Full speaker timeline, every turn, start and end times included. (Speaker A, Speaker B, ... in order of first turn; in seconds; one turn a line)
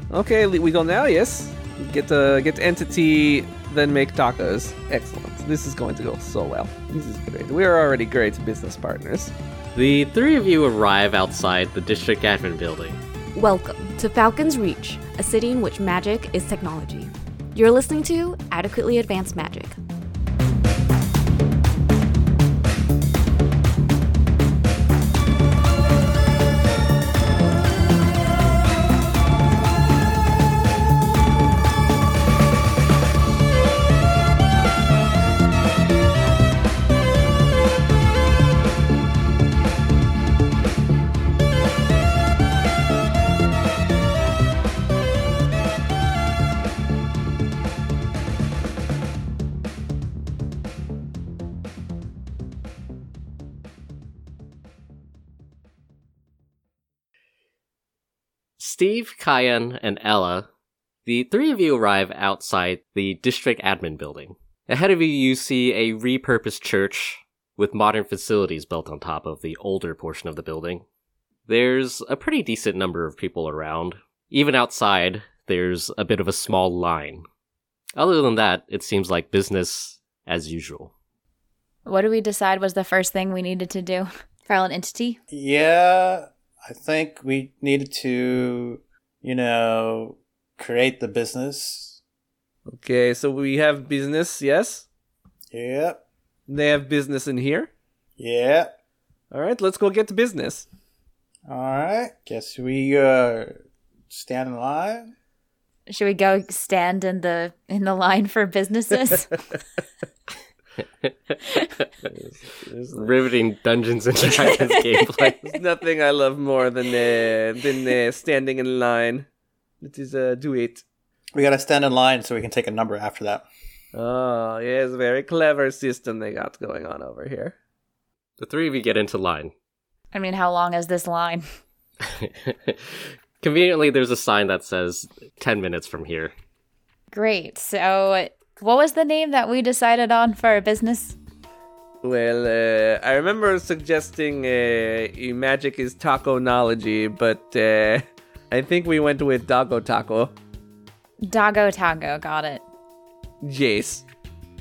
Speaker A: 0.1-9.3
Speaker B: 9.7-13.0
Speaker C: 13.3-19.8
Speaker B: 58.6-60.5
Speaker B: 61.0-70.8
Speaker B: 71.5-77.2
Speaker B: 78.0-80.9
Speaker D: 81.8-85.2
Speaker E: 85.3-92.0
Speaker A: 92.7-94.8
Speaker E: 95.5-96.0
Speaker A: 96.5-97.7
Speaker E: 98.2-98.7
Speaker A: 99.3-100.7
Speaker E: 101.5-103.5
Speaker E: 104.1-105.1
Speaker D: 105.9-109.3
Speaker D: 111.4-111.8
Speaker A: 112.0-113.2
Speaker B: 112.9-115.4
Speaker A: 115.4-119.2
Speaker A: 119.8-120.8
Speaker E: 121.3-123.4
Speaker A: 123.9-127.5
Speaker B: 128.4-129.5
Speaker D: 130.1-131.4
Speaker B: 132.0-136.3
Speaker D: 137.1-141.2
Speaker A: 142.0-150.3
Speaker D: 151.2-152.6
Speaker A: 153.4-154.0